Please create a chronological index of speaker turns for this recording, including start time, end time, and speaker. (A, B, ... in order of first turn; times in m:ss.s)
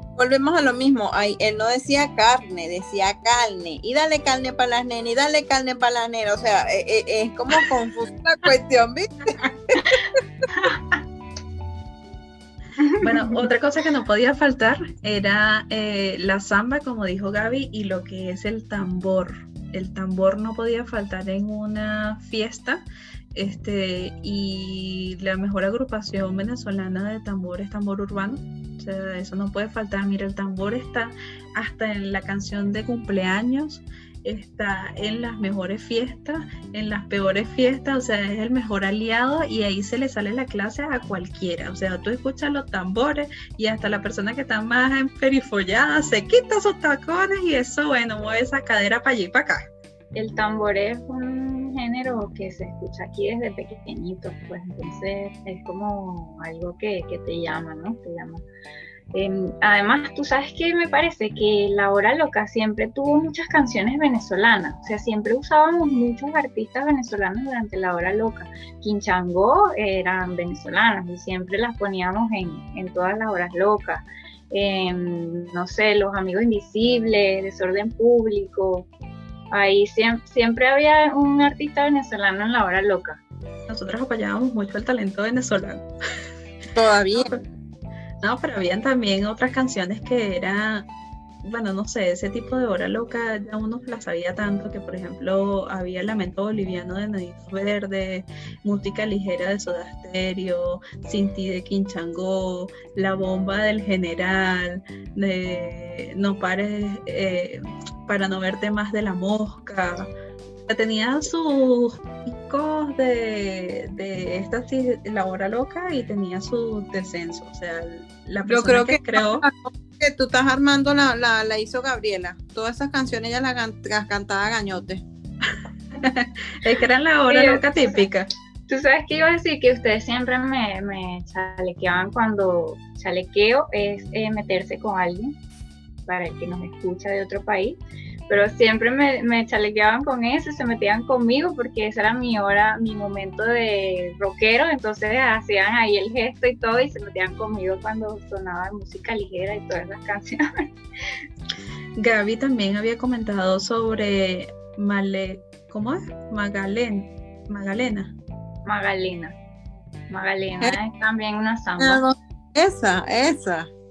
0:00.2-0:09.9 A
0:10.5-0:11.0 B
0:12.8-0:13.4 B
0:13.0-0:49.7 C
0:50.2-0:58.4 B
0:59.1-1:18.9 B
1:19.5-1:23.2 B
1:23.7-1:25.9 C
1:26.8-1:27.4 A
1:27.2-1:27.4 C
1:28.2-1:30.8 C
1:31.4-1:50.1 C
1:50.7-1:59.4 C
1:58.5-2:05.0 A
2:06.0-2:08.3 C
2:07.3-2:08.1 B
2:08.7-2:15.3 B
2:16.1-2:30.7 B
2:32.0-2:38.1 C
2:38.6-2:39.4 B
2:40.1-2:42.0 B
2:41.8-2:43.7 A